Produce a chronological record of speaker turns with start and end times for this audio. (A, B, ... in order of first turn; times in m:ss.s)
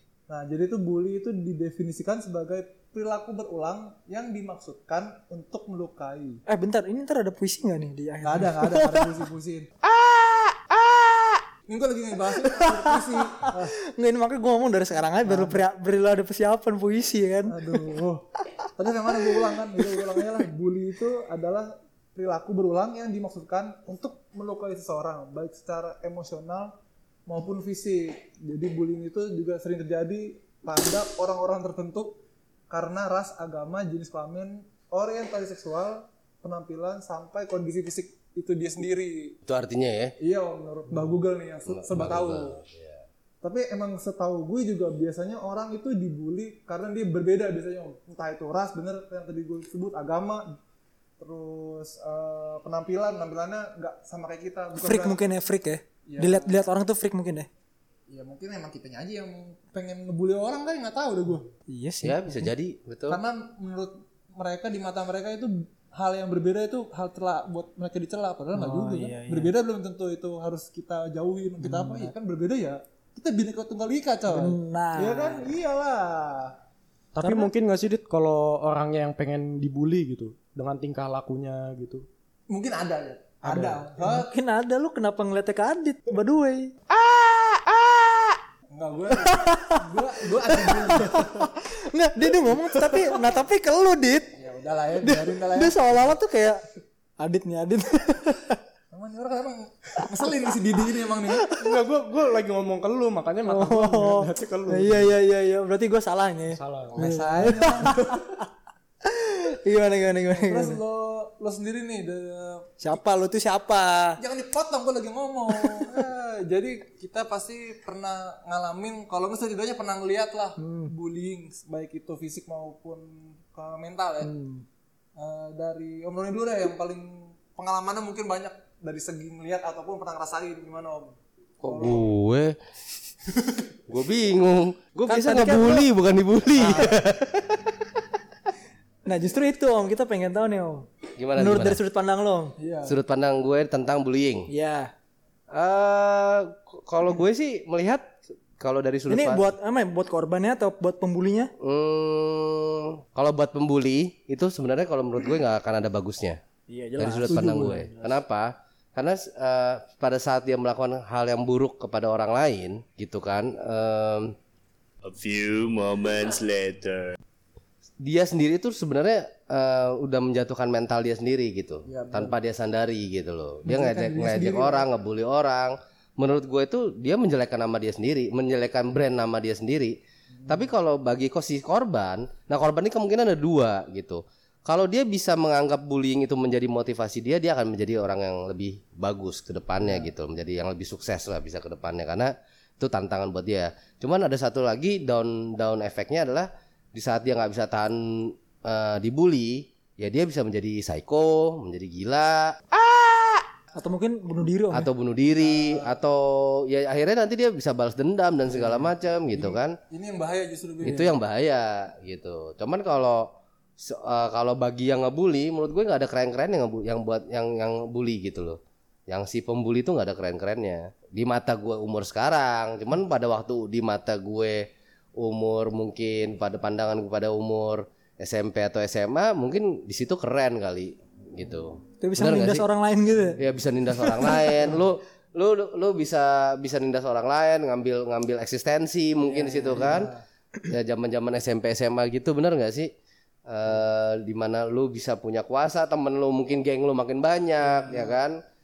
0:00.3-0:06.4 A
0:06.5-0:09.2 B
0:08.2-0:09.7 A
0:11.7-0:13.7 A
0:12.4-0:12.8 B
0:13.4-0:17.8 B
0:15.2-0:15.6 A
0:17.5-0:18.3 A
0:18.8-0:26.8 A
0:19.1-0:19.4 B
0:27.3-0:32.2 A
0:32.7-0:39.4 A
0:39.5-0:40.2 C
0:40.2-0:42.6 A
0:41.7-0:43.0 C
0:43.4-0:50.6 A
0:51.2-0:55.2 A
0:54.8-0:57.5 B
0:56.1-0:56.6 A
0:58.1-1:01.5 A
1:01.7-1:02.5 B
1:02.0-1:03.2 C
1:03.1-1:16.6 A
1:08.6-1:09.5 B
1:11.6-1:12.1 B
1:14.3-1:15.5 B
1:17.1-1:22.1 D
1:17.2-1:17.5 B
1:22.5-1:24.3 A
1:24.0-1:26.7 B
1:27.4-1:27.7 B
1:28.7-1:31.5 A
1:29.1-1:34.3 B
1:34.4-1:35.8 A
1:35.0-1:36.6 B
1:37.2-1:38.6 B
1:38.9-1:41.5 A
1:41.3-1:41.8 B
1:41.5-1:45.1 D
1:43.4-1:48.2 B
1:46.5-1:47.0 D
1:46.9-1:48.2 A
1:49.0-1:50.8 B
1:50.3-1:52.8 A
1:52.8-1:54.2 B
1:54.2-2:04.3 A
1:55.6-1:56.0 B
2:00.6-2:00.9 B
2:04.2-2:04.6 B
2:05.2-2:12.0 A
2:11.6-2:12.6 C
2:13.9-2:17.7 C
2:15.1-2:15.9 B
2:16.6-2:17.0 A
2:19.0-2:22.5 B
2:21.2-2:21.8 C
2:22.6-2:23.0 A
2:22.9-2:24.5 C
2:24.5-2:24.9 B
2:25.5-2:29.5 C
2:29.1-2:31.5 B
2:31.6-2:36.4 C
2:36.7-2:38.1 B
2:37.0-2:44.4 C
2:37.3-2:38.0 A
2:45.0-2:47.2 E
2:48.0-3:00.0 C
2:51.9-2:52.4 A
2:53.7-2:54.9 A
3:00.4-3:00.6 A
3:00.5-3:22.6 C
3:23.8-3:24.9 B
3:24.7-3:29.8 C
3:25.4-3:26.0 A
3:28.5-3:31.1 A
3:30.8-3:52.7 C
3:52.0-3:53.4 B
3:53.4-4:00.1 C
3:59.8-4:00.2 A
4:00.6-4:02.9 C
4:03.5-4:08.4 C
4:07.6-4:08.2 A